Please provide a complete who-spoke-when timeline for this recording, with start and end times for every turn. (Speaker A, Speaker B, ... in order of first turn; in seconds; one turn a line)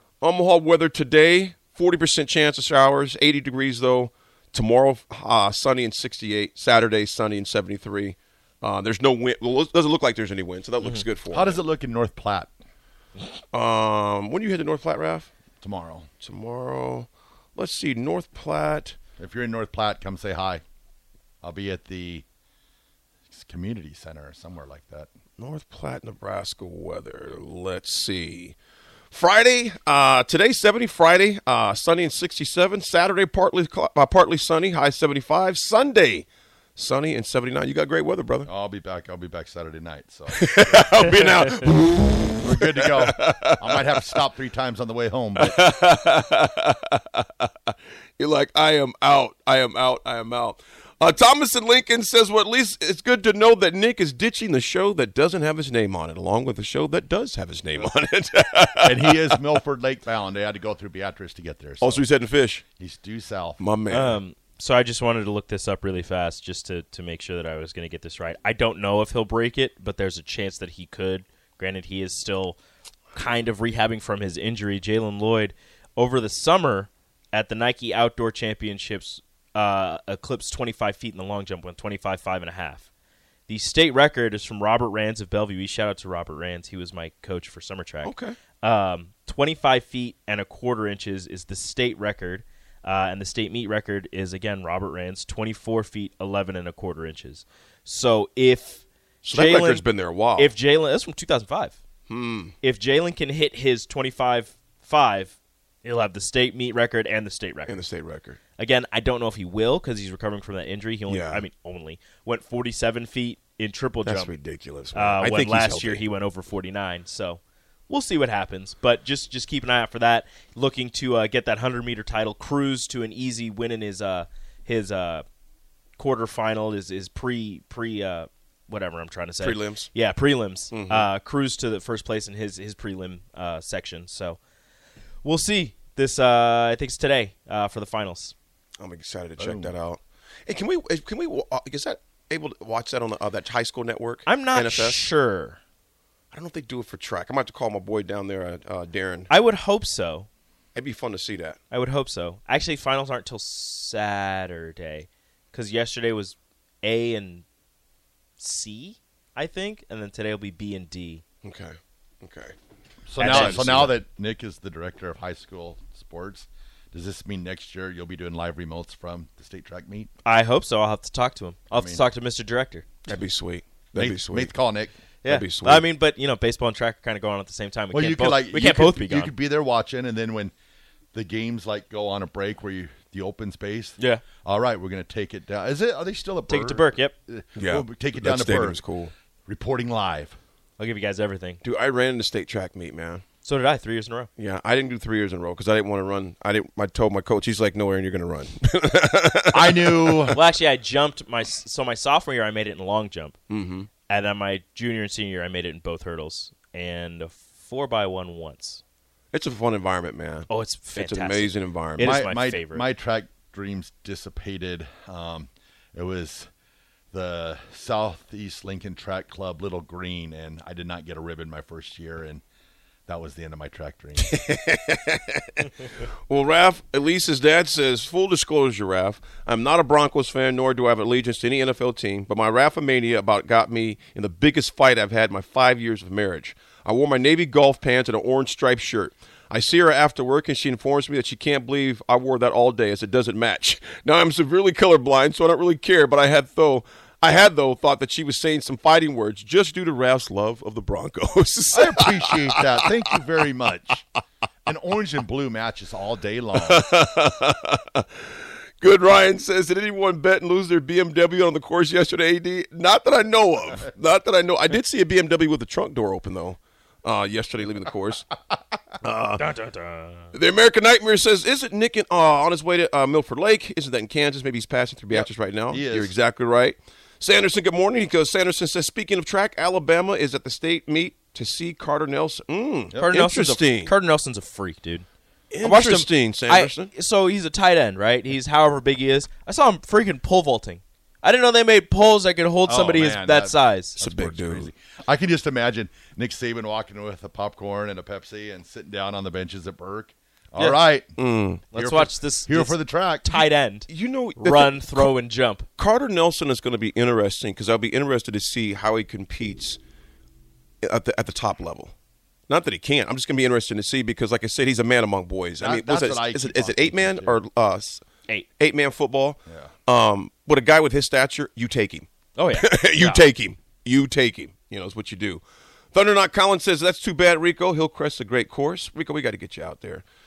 Speaker A: 0.2-11.6
Speaker B: 11.3-12.5
Speaker A: 13.5-15.3
Speaker B: 15.6-16.1
Speaker A: 16.2-19.0
Speaker B: 19.2-20.6
Speaker B: 21.4-22.2
Speaker B: 23.3-25.1
Speaker A: 25.4-28.6
Speaker A: 29.1-38.5
Speaker B: 38.5-41.6
Speaker A: 40.3-44.1
Speaker B: 42.4-45.6
Speaker A: 45.4-59.4
Speaker B: 58.8-62.0
Speaker A: 61.8-62.6
Speaker B: 62.8-63.6
Speaker A: 63.6-64.2
Speaker C: 63.9-72.6
Speaker C: 73.1-82.9
Speaker C: 83.5-101.8
Speaker A: 88.0-88.4
Speaker A: 99.2-100.5
Speaker A: 102.1-102.5
Speaker C: 102.6-107.8
Speaker A: 107.7-108.4
Speaker C: 108.6-114.3
Speaker A: 111.1-111.4
Speaker A: 114.0-116.0
Speaker C: 114.9-125.2
Speaker C: 126.0-134.4
Speaker A: 129.4-129.9
Speaker A: 130.7-131.1
Speaker C: 135.2-138.3
Speaker A: 138.8-145.0
Speaker B: 139.4-139.7
Speaker C: 144.3-145.6
Speaker A: 146.3-149.3
Speaker C: 149.3-150.3
Speaker A: 150.8-151.6
Speaker C: 151.7-157.4
Speaker C: 158.4-161.2
Speaker A: 161.4-162.6
Speaker B: 163.1-170.1
Speaker A: 163.2-164.0
Speaker C: 163.2-163.8
Speaker C: 170.2-172.9
Speaker B: 171.7-172.0
Speaker A: 173.1-174.5
Speaker B: 174.0-175.0
Speaker C: 175.2-179.3
Speaker A: 175.3-175.9
Speaker B: 177.9-180.5
Speaker B: 181.1-190.4
Speaker C: 184.0-184.2
Speaker C: 186.5-187.2
Speaker A: 187.6-189.1
Speaker C: 190.8-191.6
Speaker A: 191.6-193.2
Speaker C: 193.4-194.3
Speaker A: 194.4-200.2
Speaker B: 199.5-200.4
Speaker C: 200.3-203.4
Speaker A: 203.5-203.9
Speaker C: 204.1-208.8
Speaker A: 209.3-212.1
Speaker C: 210.5-212.9
Speaker B: 212.0-216.5
Speaker B: 217.1-222.4
Speaker B: 223.1-224.3
Speaker A: 224.2-252.7
Speaker B: 251.7-254.1
Speaker B: 254.7-256.9
Speaker A: 256.6-258.3
Speaker A: 258.8-268.3
Speaker A: 269.0-269.4
Speaker C: 269.4-270.3
Speaker A: 270.3-283.9
Speaker B: 275.1-276.1
Speaker C: 283.0-285.1
Speaker A: 285.5-286.9
Speaker C: 285.6-294.0
Speaker B: 292.6-301.1
Speaker A: 294.0-294.7
Speaker C: 300.6-300.9
Speaker A: 301.2-301.6
Speaker B: 301.7-303.4
Speaker C: 301.7-305.7
Speaker A: 303.9-305.1
Speaker A: 305.8-309.8
Speaker A: 310.8-311.9
Speaker A: 312.5-318.0
Speaker B: 315.6-317.4
Speaker A: 318.6-330.0
Speaker B: 319.5-319.7
Speaker C: 322.4-323.2